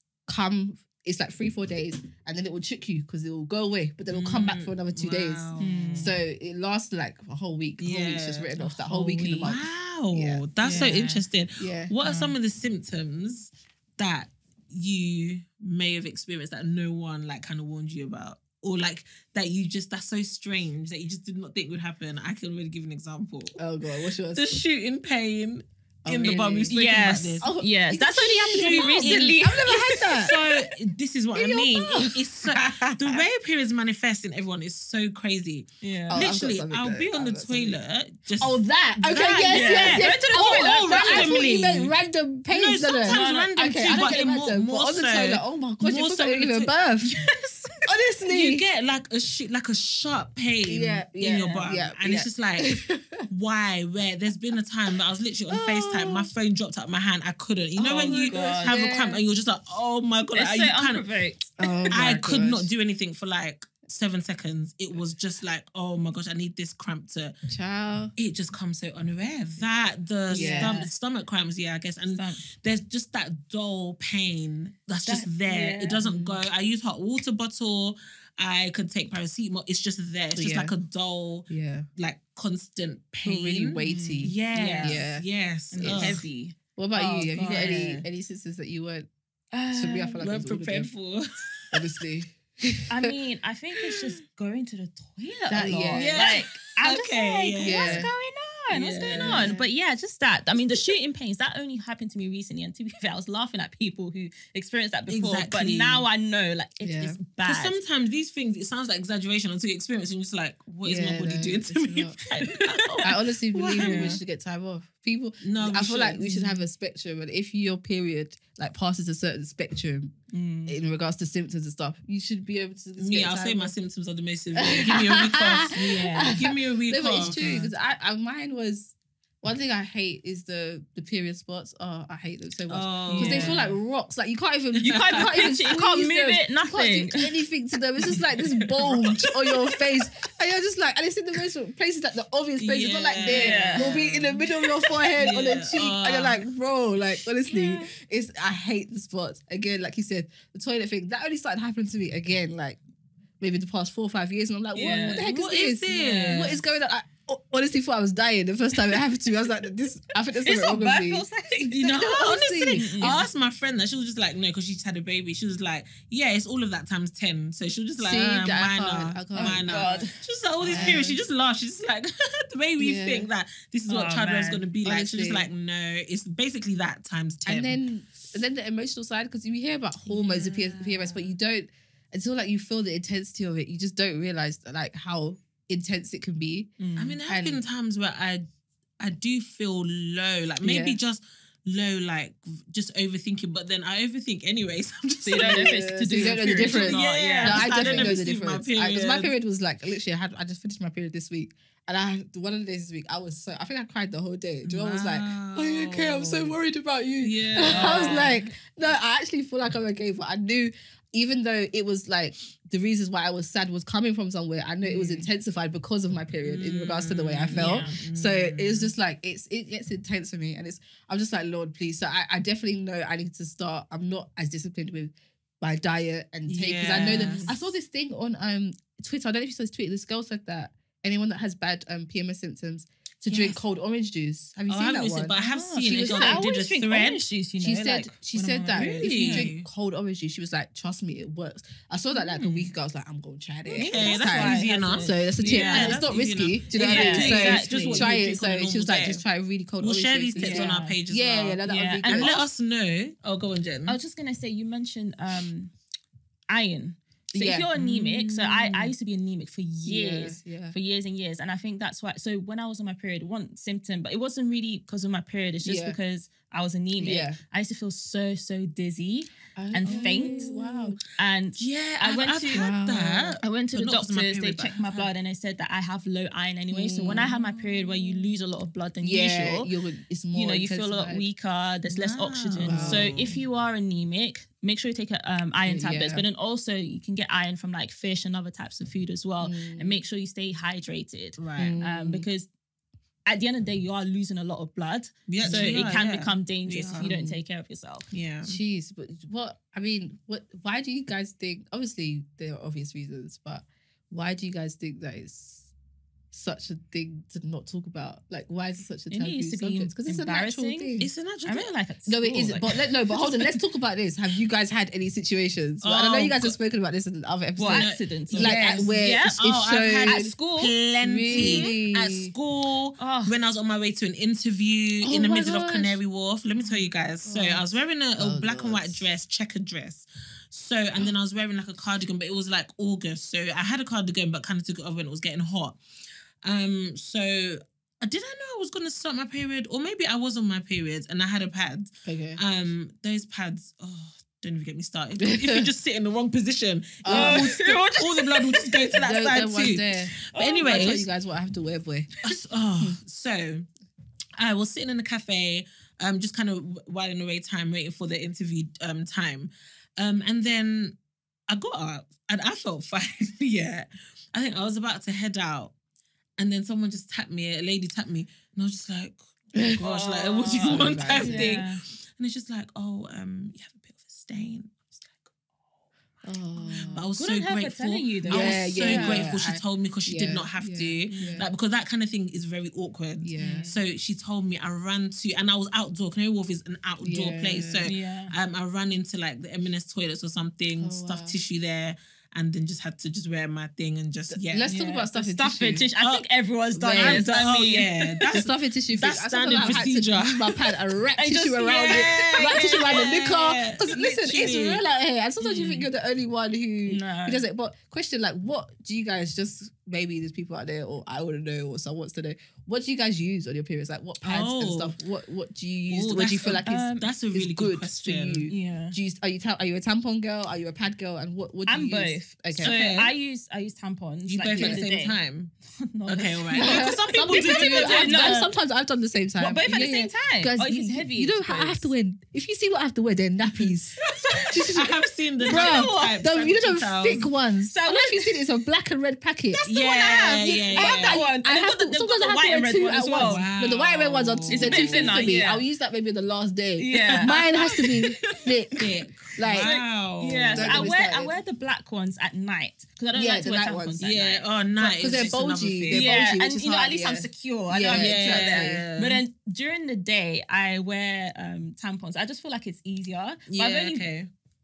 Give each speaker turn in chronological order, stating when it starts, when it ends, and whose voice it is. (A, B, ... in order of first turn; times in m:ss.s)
0:00.3-0:10.9 A
0:04.1-0:06.1 B
0:05.6-0:06.1 C
0:07.8-0:08.5 B
0:08.6-0:09.5 C
0:09.3-0:23.6 B
0:10.6-0:11.2 C
0:11.6-0:11.9 A
0:12.0-0:12.3 C
0:23.6-0:24.6 A
0:24.3-0:27.5 B
0:26.0-0:26.8 A
0:26.7-0:30.3 C
0:27.4-0:30.4 A
0:28.5-0:29.5 B
0:30.2-0:41.9 B
0:31.3-0:33.2 A
0:35.8-0:36.2 C
0:36.1-0:37.8 A
0:38.4-0:47.1 A
0:39.5-0:41.4 C
0:42.5-0:46.7 B
0:43.0-0:44.3 C
0:47.0-0:47.8 C
0:47.8-0:48.6 A
0:48.3-0:52.8 B
0:50.6-0:53.2 A
0:51.2-0:51.6 C
0:53.3-1:01.0 B
0:55.5-0:56.3 A
0:57.8-0:59.2 A
0:57.8-0:58.8 C
1:00.3-1:02.0 C
1:01.6-1:02.7 A
1:01.9-1:07.4 B
1:07.5-1:08.1 A
1:08.2-1:26.2 B
1:10.3-1:10.9 C
1:10.3-1:10.8 A
1:12.1-1:12.4 C
1:15.0-1:16.0 C
1:16.0-1:16.3 A
1:20.3-1:20.7 A
1:21.5-1:21.9 A
1:23.2-1:25.2 A
1:23.8-1:25.0 C
1:25.7-1:28.0 C
1:25.8-1:26.2 A
1:26.8-1:29.1 A
1:27.4-1:27.9 B
1:29.5-1:30.2 C
1:29.7-1:30.9 A
1:30.2-1:31.8 B
1:31.7-1:33.1 A
1:32.9-1:47.8 C
1:35.5-1:36.4 A
1:35.9-1:38.1 B
1:37.6-1:38.1 A
1:38.7-1:39.6 B
1:39.0-1:39.6 A
1:45.1-1:46.0 B
1:46.8-1:47.2 A
1:47.4-1:54.2 B
1:50.8-1:52.2 A
1:52.3-1:53.1 C
1:53.0-2:00.1 A
1:53.7-1:54.2 C
1:55.4-1:56.3 B
1:56.2-1:56.6 C
2:00.3-2:00.8 C
2:00.7-2:03.7 A
2:03.0-2:07.6 B
2:04.5-2:32.8 A
2:05.7-2:06.4 C
2:07.2-2:07.7 C
2:12.7-2:13.7 B
2:13.1-2:13.6 C
2:14.8-2:17.3 C
2:14.8-2:15.5 B
2:18.8-2:19.2 B
2:22.6-2:26.4 B
2:23.2-2:23.9 C
2:27.5-2:27.9 C
2:33.4-2:43.3 A
2:34.7-2:35.2 C
2:34.8-2:36.6 B
2:35.9-2:36.5 C
2:40.4-2:42.1 C
2:41.7-2:57.8 B
2:42.7-2:43.2 C
2:48.0-2:49.9 A
2:49.3-2:51.0 C
2:50.7-2:51.2 A
2:52.8-2:53.3 A
2:53.9-2:54.6 C
2:54.8-2:55.5 A
2:57.4-3:06.7 A
3:00.1-3:01.2 B
3:06.8-3:07.2 C
3:07.0-3:08.4 B
3:07.3-3:07.6 A
3:09.0-3:19.3 B
3:10.6-3:11.0 A
3:15.2-3:18.2 C
3:15.3-3:56.5 A
3:24.6-3:26.6 B
3:27.2-3:28.5 B
3:27.6-3:28.3 C
3:34.8-3:35.3 B
3:36.4-3:38.9 B
3:37.6-3:38.0 C
3:46.5-3:47.5 B
3:47.0-3:47.6 C
3:53.3-3:53.6 B
3:54.7-3:57.3 B
3:55.3-3:59.5 C
3:57.6-4:12.4 A
3:58.7-3:59.6 B
4:03.7-4:09.2 B
4:03.7-4:06.1 C
4:06.8-4:08.4 C
4:09.8-4:14.0 B
4:10.4-4:11.0 C
4:11.6-4:12.3 C
4:13.9-4:15.7 C
4:16.5-4:32.7 C
4:17.3-4:17.7 A
4:17.7-4:18.9 B
4:19.8-4:20.8 A
4:25.6-4:26.0 A
4:27.0-4:27.4 A
4:29.6-4:31.0 A
4:29.8-4:30.6 B
4:31.6-4:35.1 B
4:32.5-4:33.4 A
4:33.4-4:39.7 C
4:36.7-4:37.4 A
4:37.5-4:38.1 B
4:39.0-4:41.3 A
4:40.3-4:52.5 C
4:41.8-4:43.3 B
4:42.6-4:43.4 A
4:45.6-4:46.2 A
4:49.4-4:50.0 A
4:51.4-4:51.8 B
4:51.6-4:52.3 A
4:53.2-4:58.1 C
4:55.3-4:57.1 B
4:55.4-4:55.9 A
4:57.0-4:57.4 A
4:58.1-4:58.6 B
4:58.4-5:05.7 A
5:06.3-5:11.1 A
5:09.1-5:10.9 C
5:11.0-5:11.8 B
5:11.4-5:13.6 C
5:12.1-5:20.3 A
5:15.8-5:16.6 B
5:17.6-5:19.4 C
5:17.7-5:35.8 B
5:20.0-5:20.7 C
5:21.0-5:22.3 A
5:21.3-5:21.8 C
5:23.0-5:23.3 C
5:25.0-5:26.0 A
5:27.2-5:27.6 A
5:28.2-5:29.0 A
5:36.4-5:51.1 B
5:42.0-5:42.4 A
5:45.2-5:45.6 A
5:47.0-5:47.5 A
5:47.1-5:48.8 C
5:48.9-5:52.2 A
5:50.2-5:50.9 C
5:52.2-5:53.7 B
5:54.4-6:01.0 B
6:01.5-6:05.7 B
6:06.4-6:15.8 B
6:09.5-6:11.6 A
6:09.8-6:11.8 C
6:16.2-6:17.1 A
6:16.6-6:19.2 C
6:16.9-6:34.7 B
6:18.2-6:21.5 A
6:21.1-6:21.5 C
6:23.2-6:23.7 A
6:23.4-6:23.8 C
6:27.0-6:27.9 A
6:27.8-6:28.3 C
6:30.8-6:31.4 A
6:34.3-6:35.9 A
6:34.7-6:38.2 C
6:36.0-6:36.2 B
6:36.8-6:37.3 A
6:36.9-6:40.8 B
6:38.3-7:02.7 A
6:41.2-6:43.0 C
6:41.6-6:44.8 B
6:45.4-6:45.8 C
6:46.9-6:47.4 C
6:54.2-6:55.0 B
6:55.9-6:58.5 B
6:56.6-6:57.1 C
6:58.5-6:59.0 C
7:01.6-7:05.2 C
7:02.6-7:03.1 B
7:04.3-7:05.5 B
7:04.5-7:04.8 A
7:05.8-7:08.5 C
7:06.1-7:08.3 B
7:06.5-7:29.7 A
7:09.4-7:11.9 C
7:14.0-7:14.5 C
7:14.5-7:17.3 B
7:15.4-7:16.2 C
7:17.7-7:18.4 C
7:19.6-7:23.4 C
7:19.6-7:21.3 B
7:23.2-7:25.2 B
7:24.5-7:25.6 C
7:26.8-7:28.5 C
7:28.8-7:30.8 B
7:29.6-7:34.4 C
7:30.5-7:31.3 A
7:33.1-7:34.0 A
7:34.0-7:36.1 B
7:34.8-7:38.8 A
7:35.9-7:44.0 C
7:37.9-7:39.2 B
7:43.5-7:44.3 B